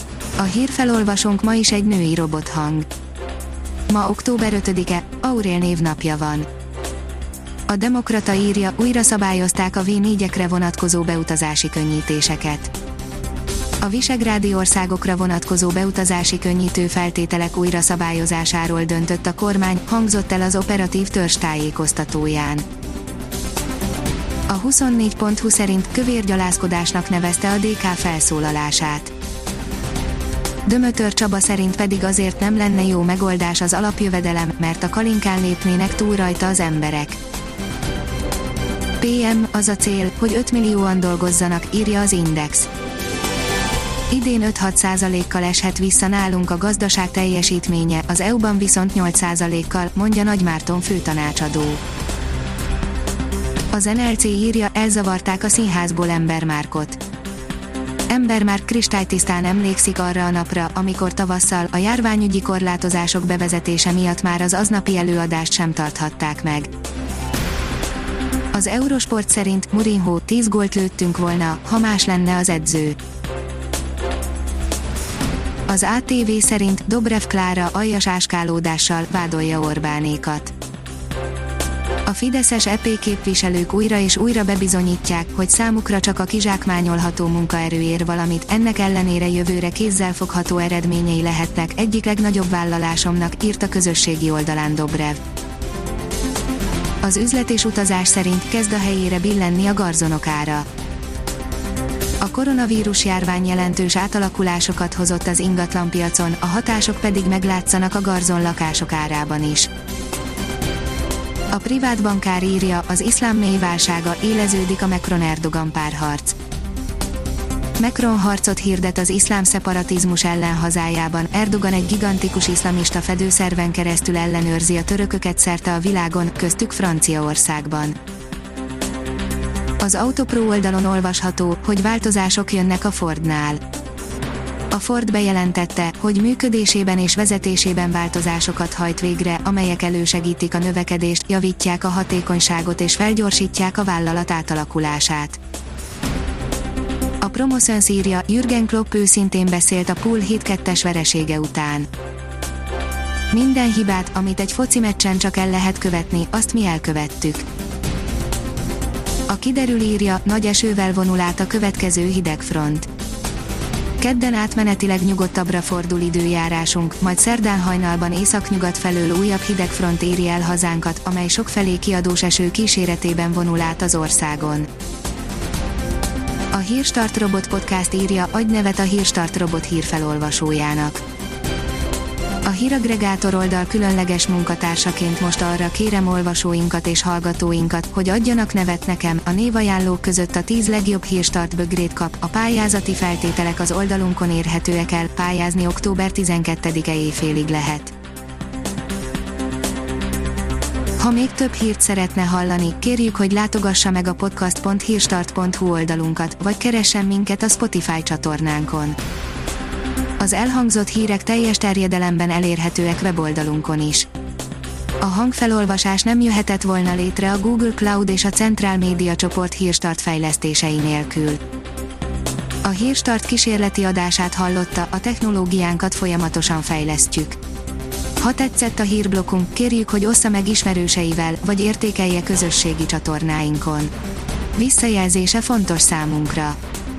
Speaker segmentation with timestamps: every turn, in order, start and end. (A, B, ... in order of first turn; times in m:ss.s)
0:00.4-0:02.9 A
0:03.9-0:06.5 A
0:07.7-0:12.7 A
0:13.8-0:22.7 A
0:24.5-0:29.1 A
0:30.6-0:37.2 A
0:39.0-0:42.7 A
0:44.1-0:51.8 A
0:53.7-0:57.0 A
0:58.1-1:06.7 A
1:08.5-1:13.0 A
1:15.7-1:20.5 A
1:22.1-1:35.2 A
1:37.0-1:40.7 A
1:42.2-1:49.7 A
1:51.5-1:56.4 A
1:57.8-2:08.0 A
2:09.8-2:13.6 A
2:14.7-2:25.4 A
2:27.2-2:31.9 A
2:33.3-2:37.5 A
2:39.3-2:42.9 A
2:44.0-2:54.7 A
2:56.5-3:01.0 A
3:02.4-3:17.9 A
3:21.0-3:29.0 A
3:30.2-3:34.1 A
3:35.0-3:41.4 A
3:42.6-3:47.4 A
3:48.2-3:53.9 A
3:54.6-3:56.6 A